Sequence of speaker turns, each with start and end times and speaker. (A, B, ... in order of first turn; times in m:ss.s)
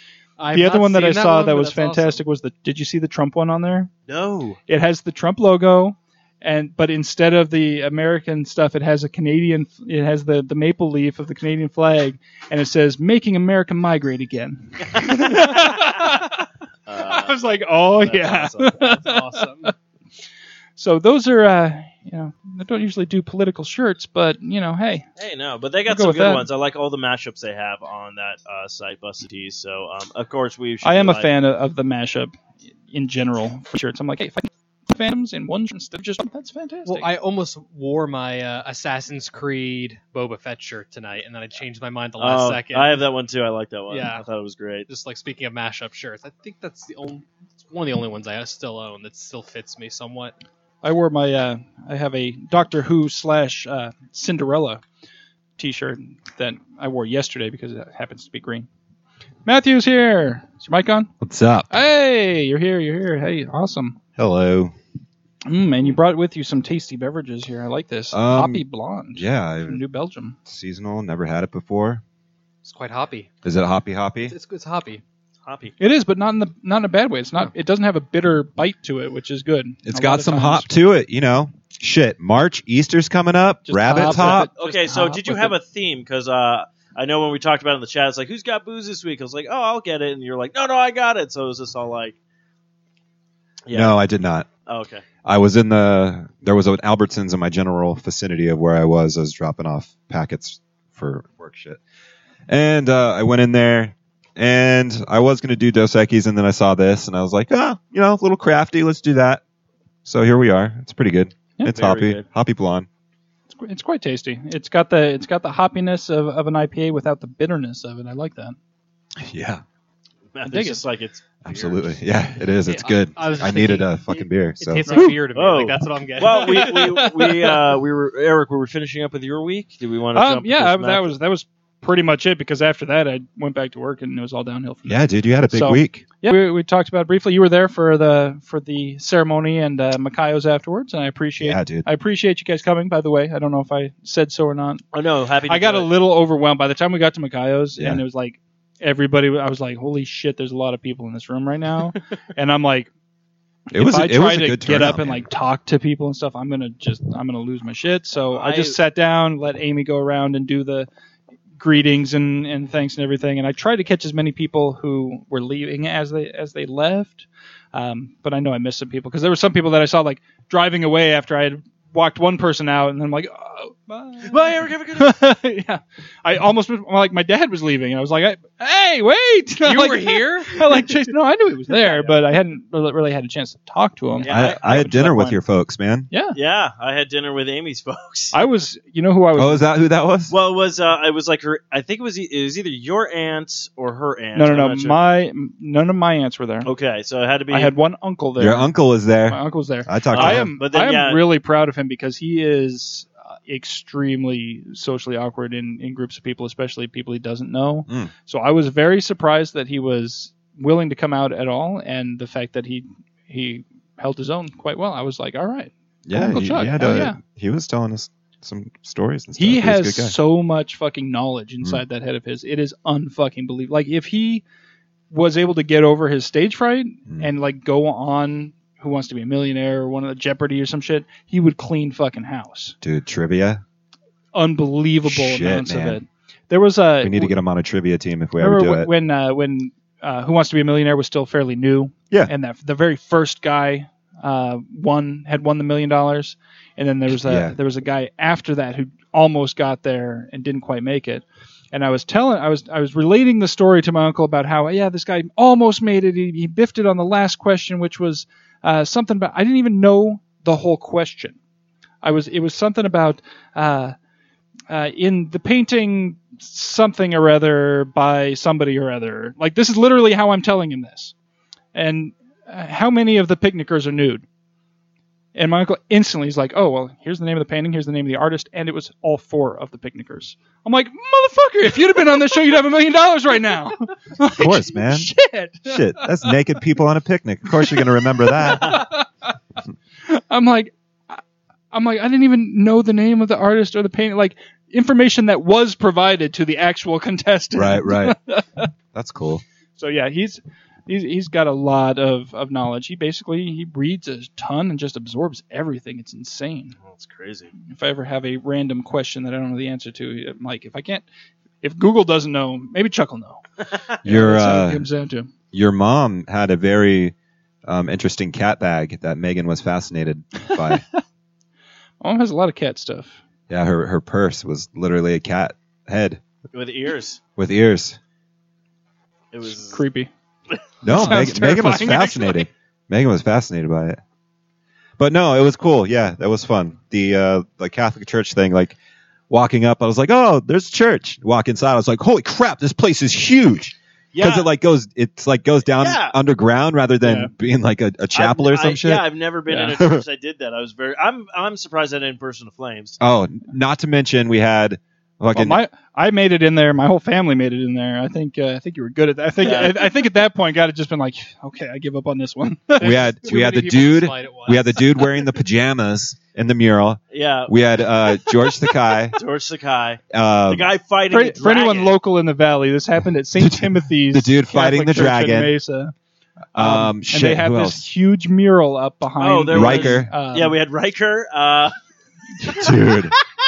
0:00.4-0:02.2 A
0:00.5-0:03.9 B
0:04.1-0:04.6 C
0:04.7-0:16.4 B
0:15.0-0:16.2 C
0:16.9-0:19.1 C
0:17.1-0:19.7 B
0:19.0-0:19.7 A
0:20.8-0:25.1 B
0:25.2-0:31.3 C
0:25.9-0:26.5 B
0:30.8-0:32.3 B
0:32.9-0:37.1 B
0:36.8-0:43.0 A
0:42.2-0:44.9 C
0:43.9-0:44.2 A
0:44.9-0:50.3 A
0:50.8-0:54.8 B
0:55.6-0:58.7 B
0:59.4-1:01.1 B
1:01.2-1:01.8 D
1:01.7-1:04.0 B
1:04.2-1:04.7 D
1:05.4-1:10.4 B
1:08.1-1:08.6 D
1:09.1-1:09.8 D
1:10.4-1:12.0 D
1:12.6-1:13.3 A
1:13.4-1:14.3 D
1:14.3-1:15.0 A
1:15.4-1:15.7 C
1:15.8-1:20.7 B
1:19.8-1:24.5 D
1:23.6-1:25.6 B
1:24.0-1:32.2 C
1:33.7-1:34.0 C
1:33.7-1:34.5 D
1:34.6-1:35.0 C
1:35.2-1:41.8 D
1:42.5-1:49.4 D
1:50.0-1:52.9 D
1:51.7-1:52.2 C
1:53.5-1:58.6 B
1:59.2-1:59.6 D
2:00.3-2:02.0 C
2:00.4-2:00.8 B
2:01.4-2:05.0 D
2:02.6-2:07.3 A
2:04.9-2:05.1 B
2:05.3-2:11.1 C
2:10.1-2:24.8 B
2:14.9-2:16.0 D
2:21.4-2:21.8 D
2:24.9-2:25.9 C
2:25.5-2:32.9 B
2:27.8-2:28.0 D
2:33.7-2:35.2 D
2:33.7-2:40.9 B
2:38.3-2:38.8 C
2:41.6-2:54.4 B
2:54.2-2:55.2 C
2:55.0-3:05.4 B
2:59.6-3:01.0 A
3:01.8-3:02.1 C
3:04.2-3:04.9 C
3:04.3-3:06.1 D
3:06.1-3:06.4 B
3:06.3-3:08.4 C
3:08.3-3:09.6 B
3:09.4-3:10.3 D
3:10.3-3:15.0 C
3:14.3-3:16.7 B
3:16.6-3:17.7 C
3:17.5-3:18.7 B
3:18.4-3:20.5 D
3:19.3-3:37.2 B
3:20.1-3:21.2 C
3:36.1-3:40.2 D
3:39.4-3:44.4 B
3:45.1-3:52.8 B
3:52.8-3:53.6 D
3:54.3-3:57.3 B
3:55.0-3:56.0 D
3:57.0-3:58.9 D
3:58.4-4:21.4 B
4:07.2-4:07.5 D
4:22.0-4:23.9 B
4:24.7-4:31.1 B
4:31.7-4:34.2 B
4:35.3-4:46.4 B
4:44.4-4:48.8 D
4:47.5-4:49.0 B
4:50.1-4:51.2 B
4:51.7-4:58.7 B
4:57.5-4:58.2 D
4:58.9-4:59.4 D
4:59.8-5:06.8 B
5:06.8-5:07.5 C
5:07.6-5:11.0 B
5:11.6-5:13.4 B
5:14.0-5:14.9 D
5:14.0-5:15.3 B
5:15.5-5:17.1 D
5:17.6-5:20.8 D
5:22.0-5:23.2 B
5:23.5-5:26.2 D
5:26.5-5:27.2 C
5:27.4-5:28.0 D
5:29.3-5:29.8 C
5:29.7-5:30.1 B
5:30.8-5:34.0 D
5:30.9-5:32.5 B
5:35.0-5:38.8 D
5:39.3-5:49.0 D
5:44.1-5:44.5 C
5:45.8-5:46.2 C
5:47.0-5:47.3 B
5:48.1-5:53.0 C
5:49.5-5:49.7 B
5:49.8-5:50.0 D
5:53.0-5:55.6 D
5:55.3-6:02.9 B
5:59.4-6:00.0 C
6:02.8-6:05.3 A
6:02.8-6:09.2 D
6:07.1-6:08.3 C
6:09.1-6:11.9 C
6:10.1-6:10.6 D
6:11.1-6:15.9 B
6:13.4-6:15.5 D
6:16.5-6:17.9 D
6:16.6-6:20.6 B
6:19.2-6:21.8 C
6:19.5-6:20.1 D
6:22.5-6:23.1 D